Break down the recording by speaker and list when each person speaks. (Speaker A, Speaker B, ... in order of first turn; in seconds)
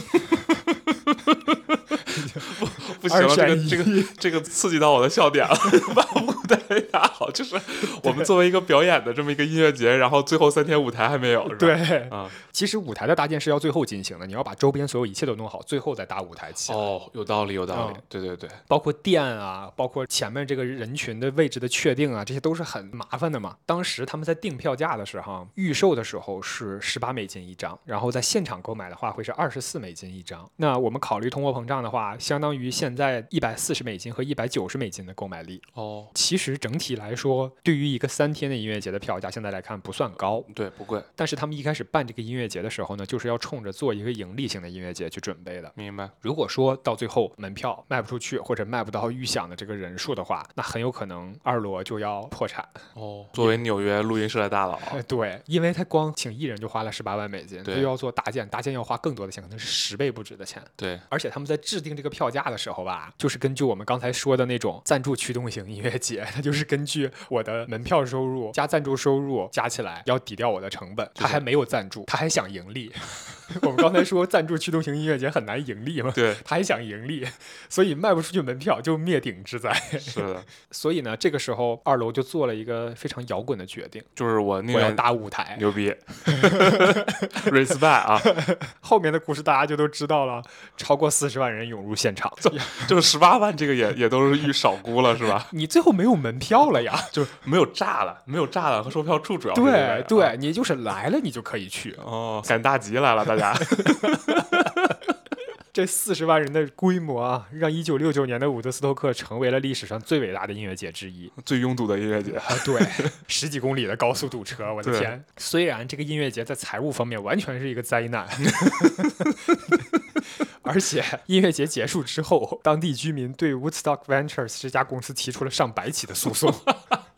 Speaker A: 1.1-12.3, 16.6-18.6, 35.7-36.1, 40.5-41.1, 45.8-46.1, 52.9-55.0, 57.6-57.9, 60.8-61.0, 71.2-71.5, 76.1-76.4, 80.0-80.5, 84.2-88.4, 92.5-95.5, 96.9-100.3, 102.0-105.0, 111.3-113.1, 114.8-115.1, 118.6-119.8
Speaker B: 2.0-4.2, 11.4-16.9, 17.7-18.0, 18.7-40.5, 41.1-52.8, 54.8-84.1, 84.7-85.6, 86.2-87.5, 88.2-92.9, 95.5-97.1, 99.5-102.0, 103.6-104.8, 105.7-111.3, 112.3-119.8, 120.6-126.8